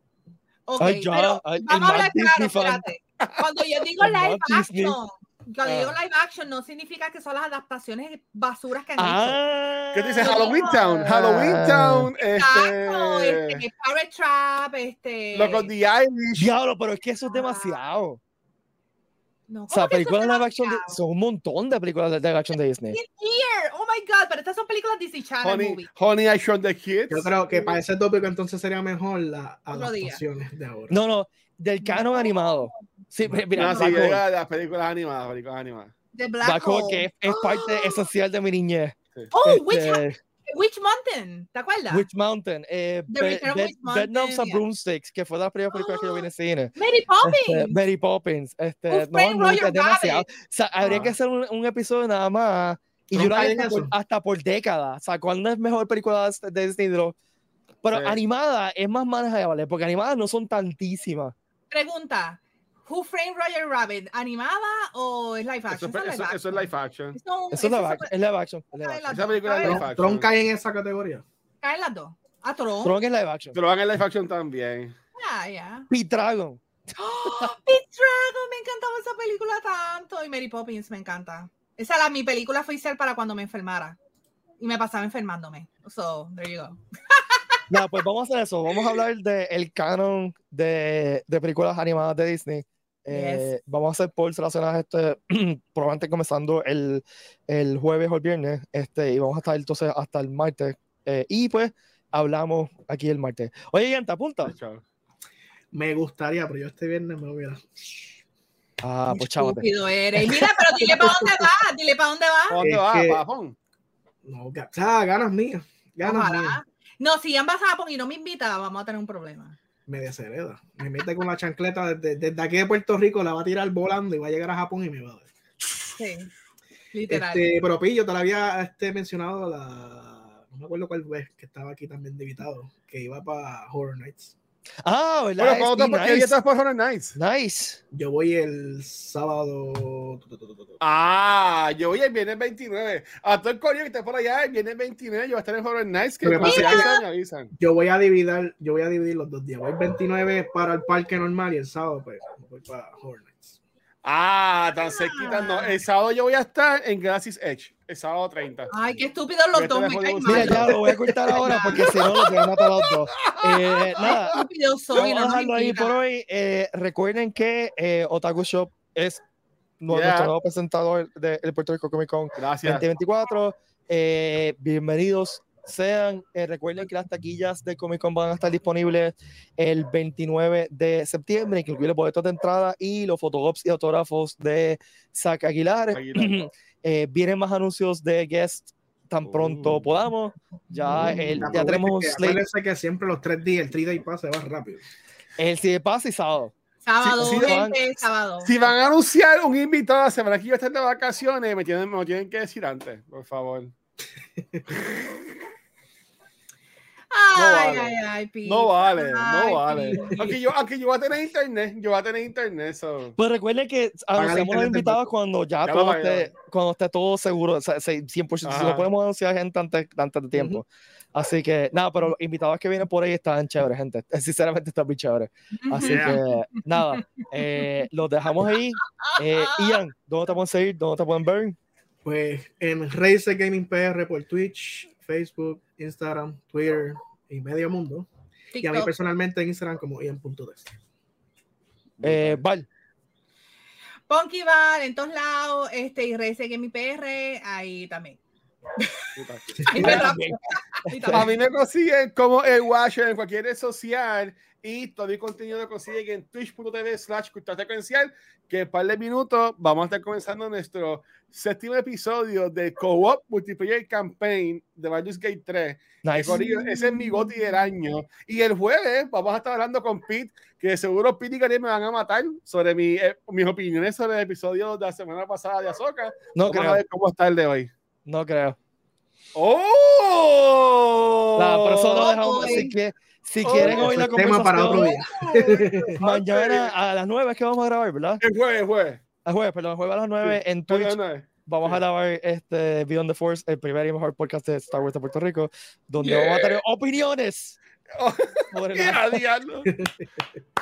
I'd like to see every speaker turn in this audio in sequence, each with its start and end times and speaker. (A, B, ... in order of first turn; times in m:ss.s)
0:00.7-0:09.4 A
0:00.8-0:02.9 B
0:03.2-0:03.5 C
0:04.0-0:05.0 B
0:05.6-0:05.9 C
0:09.0-0:12.1 B
0:09.9-0:13.6 C
0:10.2-0:11.1 A
0:12.3-0:15.7 A
0:15.3-0:16.5 C
0:16.4-0:18.2 B
0:17.3-0:17.8 A
0:19.5-0:21.0 A
0:19.7-0:23.0 B
0:22.9-0:25.9 A
0:25.4-0:27.8 C
0:27.1-0:31.0 D
0:29.7-0:30.2 A
0:30.9-0:34.2 B
0:31.8-0:32.9 A
0:33.6-0:35.9 C
0:33.6-0:34.0 A
0:36.2-0:38.1 A
0:36.4-0:40.2 B
0:39.3-0:42.1 A
0:41.9-0:57.2 B
0:43.1-0:44.6 A
0:45.7-0:47.8 A
0:48.9-0:50.3 A
0:50.8-0:51.1 D
0:53.1-0:53.9 D
0:57.8-1:01.3 B
0:57.9-0:58.2 C
1:01.7-1:08.1 A
1:05.7-1:07.2 C
1:07.5-1:09.2 B
1:08.8-1:09.8 A
1:09.1-1:10.3 C
1:09.6-1:11.2 D
1:11.6-1:13.0 A
1:12.8-1:13.6 B
1:13.5-1:15.0 C
1:15.2-1:15.9 A
1:15.9-1:16.6 B
1:17.0-1:24.0 A
1:17.2-1:17.5 B
1:24.6-1:27.6 A
1:27.7-1:44.6 B
1:33.1-1:33.5 A
1:44.4-1:44.8 C
1:45.7-1:47.7 D
1:48.8-1:49.7 B
1:49.1-1:52.6 A
1:50.8-1:51.4 D
1:52.5-1:53.6 C
1:52.6-1:53.2 D
1:54.2-1:56.6 D
1:56.0-1:59.6 A
1:59.9-2:05.3 D
2:06.0-2:06.3 A
2:06.9-2:07.5 A
2:07.1-2:14.4 D
2:14.8-2:16.4 B
2:15.4-2:17.2 C
2:17.2-2:17.8 B
2:17.9-2:20.8 D
2:20.8-2:27.5 C
2:26.2-2:27.0 D
2:26.4-2:27.0 A
2:27.6-2:33.6 D
2:34.0-2:38.7 C
2:34.8-2:35.8 A
2:38.7-2:42.5 A
2:39.5-2:40.8 C
2:40.2-2:49.2 B
2:40.7-2:41.9 D
2:43.2-2:44.1 C
2:43.9-2:46.0 A
2:49.8-3:12.4 B
2:49.9-2:50.3 C
2:52.4-2:52.9 C
3:05.9-3:06.4 C
3:09.2-3:09.8 C
3:10.9-3:14.8 D
3:15.4-3:17.8 B
3:16.8-3:18.5 A
3:17.2-3:17.7 C
3:18.4-3:23.7 C
3:24.4-3:24.7 D
3:27.1-3:30.3 A
3:27.4-3:33.2 C
3:29.9-3:30.4 D
3:33.2-3:51.6 B
3:34.1-3:35.1 D
3:35.6-3:36.3 C
3:38.4-3:38.9 C
3:40.3-3:40.6 D
3:45.5-3:47.0 A
3:45.8-3:46.2 C
3:49.0-3:49.8 A
3:52.0-4:00.7 D
3:58.5-3:58.9 A
4:02.0-4:02.4 C
4:02.0-4:02.7 B
4:04.1-4:08.2 A
4:09.2-4:09.9 C
4:09.6-4:10.1 D
4:09.7-4:11.3 A
4:09.8-4:11.3 B
4:11.1-4:37.7 C
4:26.0-4:26.4 B
4:26.3-4:27.4 A
4:36.4-4:36.8 B
4:38.1-4:38.6 B
4:39.4-4:42.7 C
4:41.4-4:44.9 B
4:42.0-4:42.7 A
4:43.4-4:46.7 C
4:43.6-4:46.0 D
4:44.7-4:45.9 A
4:46.0-4:48.2 B
4:48.2-4:49.0 C
4:49.2-4:57.6 B
4:50.2-4:51.8 C
4:56.0-4:56.6 C
4:58.0-4:59.7 C
4:58.5-4:59.2 B
4:59.6-5:00.2 D